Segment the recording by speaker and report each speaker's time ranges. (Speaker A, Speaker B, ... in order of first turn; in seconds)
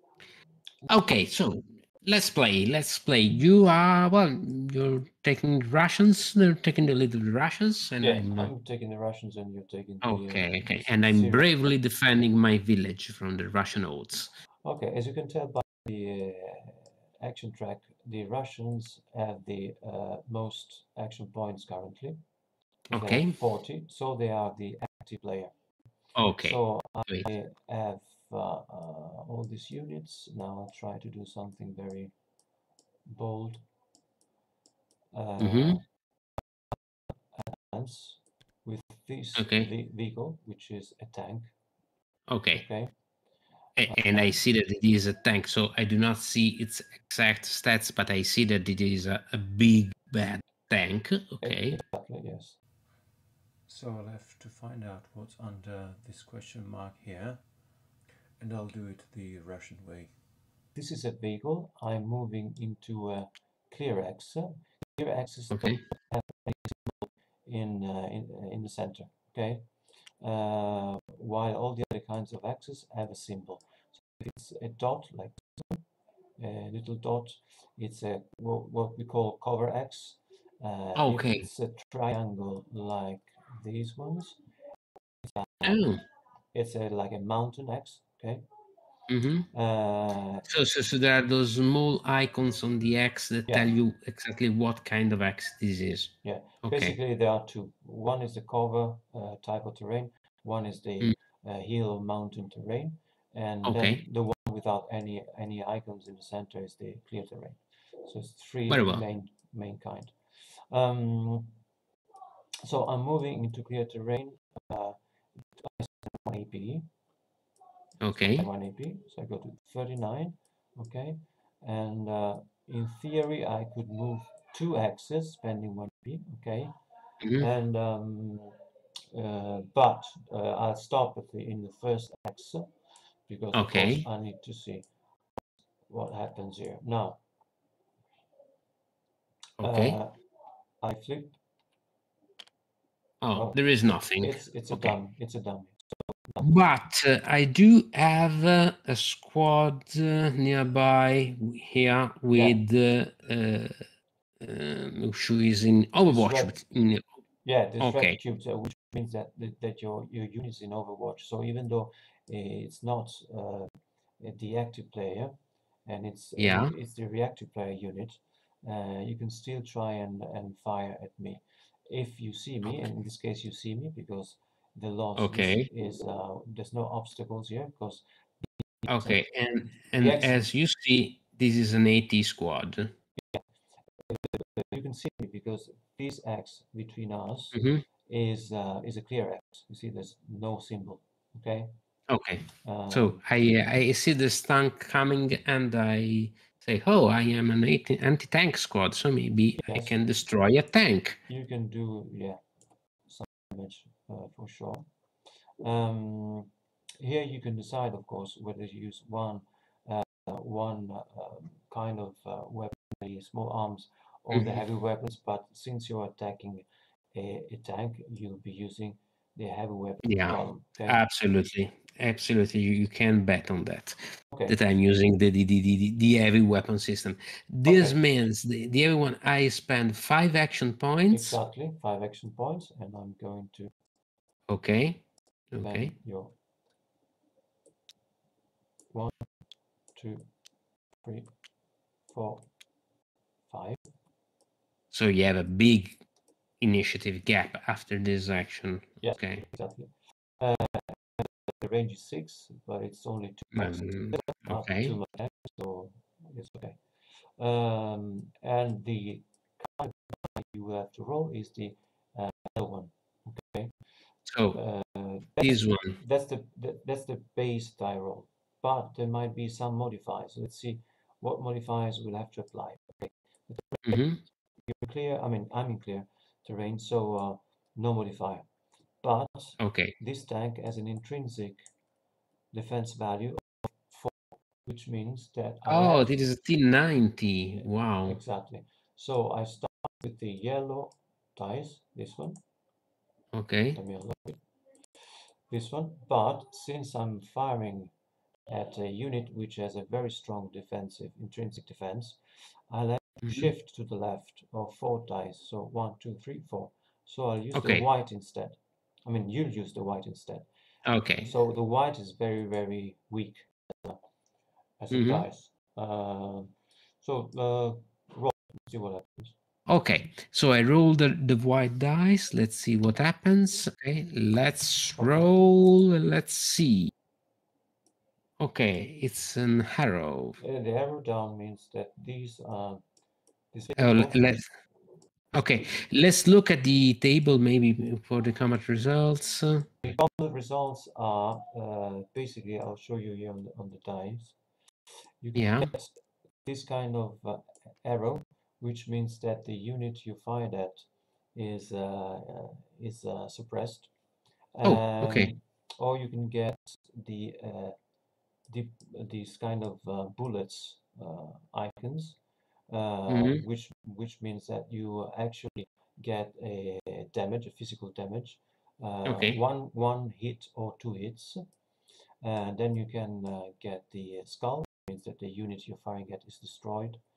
Speaker A: 0.9-8.5, 10.0-14.3, 22.9-23.4, 26.1-27.3, 35.4-35.8, 39.4-39.7, 42.3-42.7, 43.8-51.8, 65.5-65.8, 81.0-81.5, 85.6-86.0, 89.1-89.5, 90.5-97.0, 103.6-104.0, 108.7-109.0, 118.0-118.5, 127.2-127.5, 133.5-134.1, 139.6-140.0, 143.2-145.0, 146.4-153.8, 154.4-157.0, 157.8-158.2, 166.4-166.7, 175.2-175.7, 178.9-182.9, 187.5-187.8, 192.1-201.2, 214.3-214.6, 220.1-231.4, 234.5-235.9, 244.9-246.0, 246.6-249.5, 253.5-254.9, 264.3-264.6, 265.4-266.0, 273.9-274.2, 279.6-279.9, 285.7-288.2, 293.3-293.8, 307.5-307.9, 310.9-311.3, 314.9-315.2, 319.7-326.9, 328.4-330.4, 333.8-334.5, 335.3-339.9, 345.4-345.7, 354.6-355.3, 363.1-363.4, 369.1-369.4
Speaker B: 8.0-10.5, 11.0-11.7, 14.7-22.2, 22.9-25.5, 26.4-32.1, 33.1-33.7, 35.1-35.9, 37.3-41.5, 42.6-42.9, 43.9-44.4, 51.4-52.6, 53.7-57.4, 58.4-60.1, 60.7-69.7, 70.2-75.8, 76.4-84.4, 85.2-85.9, 86.5-88.5, 89.5-90.5, 96.2-111.6, 112.7-115.0, 115.5-116.9, 118.3-126.8, 127.4-128.6, 129.1-132.7, 133.3-134.9, 135.9-137.2, 139.6-140.1, 140.8-141.4, 144.2-146.5, 152.3-152.6, 156.0-156.6, 157.4-165.3, 165.9-179.2, 180.0-180.4, 183.2-183.5, 184.0-191.7, 192.6-193.2, 199.6-200.0, 201.3-202.4, 203.1-204.9, 205.6-221.0, 224.3-224.6, 227.7-228.0, 231.1-233.7, 235.6-236.4, 238.9-239.3, 239.9-240.3, 241.0-241.3, 242.1-242.5, 243.5-243.8, 249.0-256.8, 257.4-263.8, 264.5-274.1, 274.6-278.5, 279.0-281.6, 282.5-286.1, 288.1-292.4, 293.8-294.4, 295.5-297.9, 298.5-310.5, 311.2-314.0, 314.8-319.4, 325.0-325.3, 330.4-332.8, 333.5-334.4, 339.8-344.4, 345.2-353.9, 354.6-357.8, 358.5-362.2, 362.7-371.4, 372.2-377.0